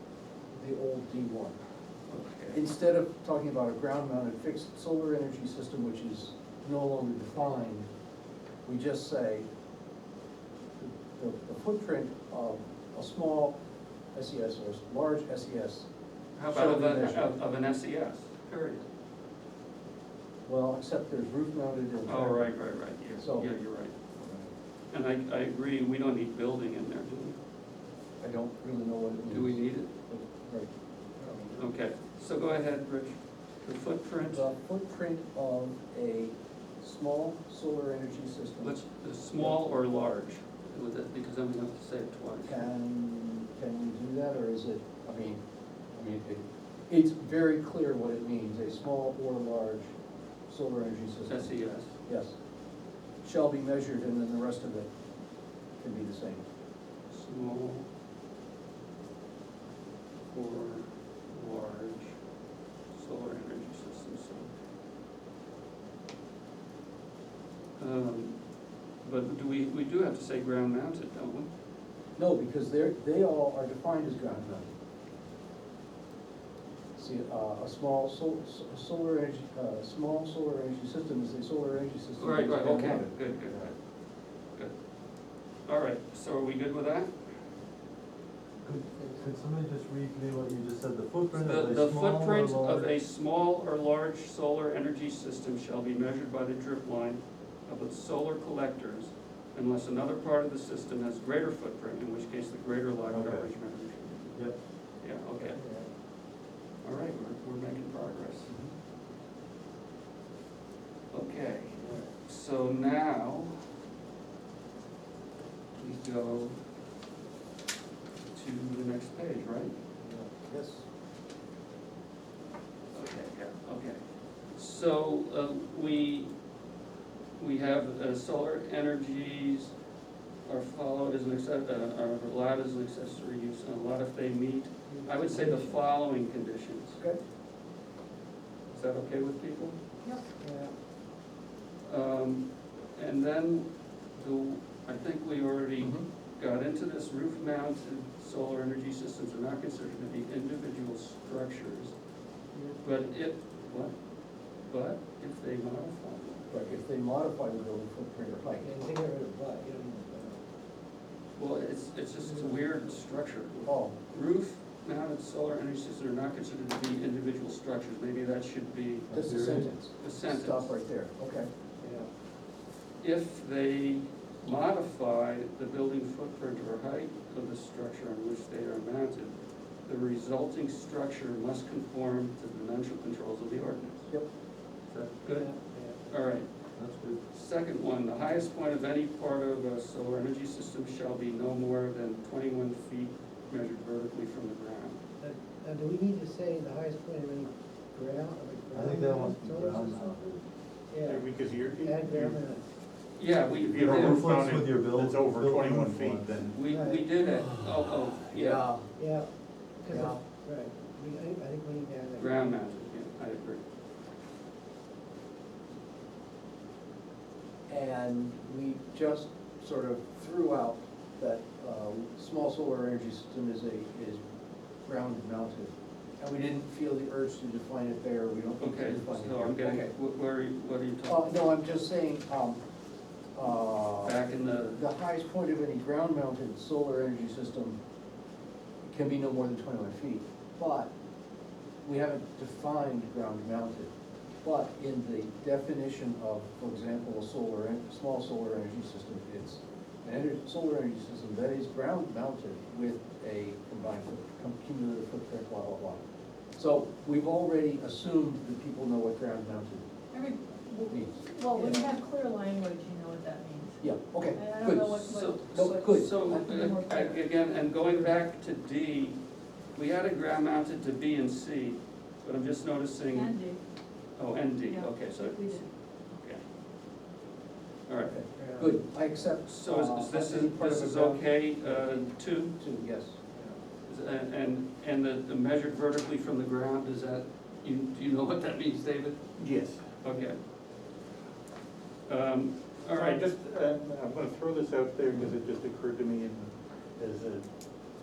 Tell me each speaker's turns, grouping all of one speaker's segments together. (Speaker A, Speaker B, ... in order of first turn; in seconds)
Speaker A: 0.5-1.6, 2.5-7.9, 8.6-9.5, 10.8-13.6, 14.1-15.9, 16.5-17.3, 20.5-22.5, 23.1-23.5, 24.1-24.5, 28.2-30.7, 31.2-31.6, 34.2-38.8, 42.4-45.4, 45.9-49.9, 50.5-51.5, 52.0-52.3, 53.2-54.9, 55.8-56.5, 72.2-74.7, 77.0-83.7, 120.0-120.8, 145.8-146.0, 156.5-158.8, 163.6-164.0, 169.1-171.5, 208.3-208.9, 209.9-210.2, 217.7-224.2, 224.8-229.9, 231.1-232.6, 233.3-234.2, 234.8-237.8, 238.8-240.9, 241.8-256.0, 256.6-259.9, 260.9-261.8, 263.8-266.4, 278.1-283.5
Speaker B: 2.1-2.6, 16.4-18.8, 22.1-24.0, 24.9-27.4, 29.3-29.9, 31.6-34.5, 38.6-42.7, 51.3-51.9, 57.1-57.9, 60.3-62.1, 62.9-64.5, 67.8-68.4, 69.0-71.5, 82.2-83.8, 85.7-87.1, 91.3-105.6, 106.8-108.5, 111.1-113.6, 115.8-116.5, 118.3-119.8, 122.9-124.0, 124.5-126.3, 127.4-129.7, 130.4-137.0, 138.7-139.8, 141.8-151.9, 152.8-153.9, 154.6-156.5, 161.4-170.7, 173.0-184.1, 184.9-185.5, 186.1-186.5, 187.3-195.0, 203.2-204.4, 206.5-208.6, 212.2-213.6, 228.6-231.3, 234.0-234.8, 265.0-269.2, 269.7-273.5, 274.1-276.4, 277.9-278.2, 279.4-282.5, 283.9-289.3, 290.0-290.4, 292.1-293.2
Speaker C: 88.6-92.9, 103.1-103.5, 169.1-169.7, 186.8-187.2, 198.7-200.4, 203.8-206.4
Speaker D: 105.6-105.9, 134.9-135.8, 140.4-140.7, 152.5-152.8, 158.5-160.4, 162.2-162.7, 171.8-172.1, 185.3-186.0, 195.2-200.2, 200.9-202.7, 206.6-207.1, 208.9-209.3, 209.8-212.6, 261.6-261.8, 278.4-278.8
Speaker E: 201.0-202.4, 203.5-206.6, 289.4-290.0, 292.9-297.4
Speaker F: 260.1-263.8, 264.3-267.2, 273.1-273.6, 274.6-275.7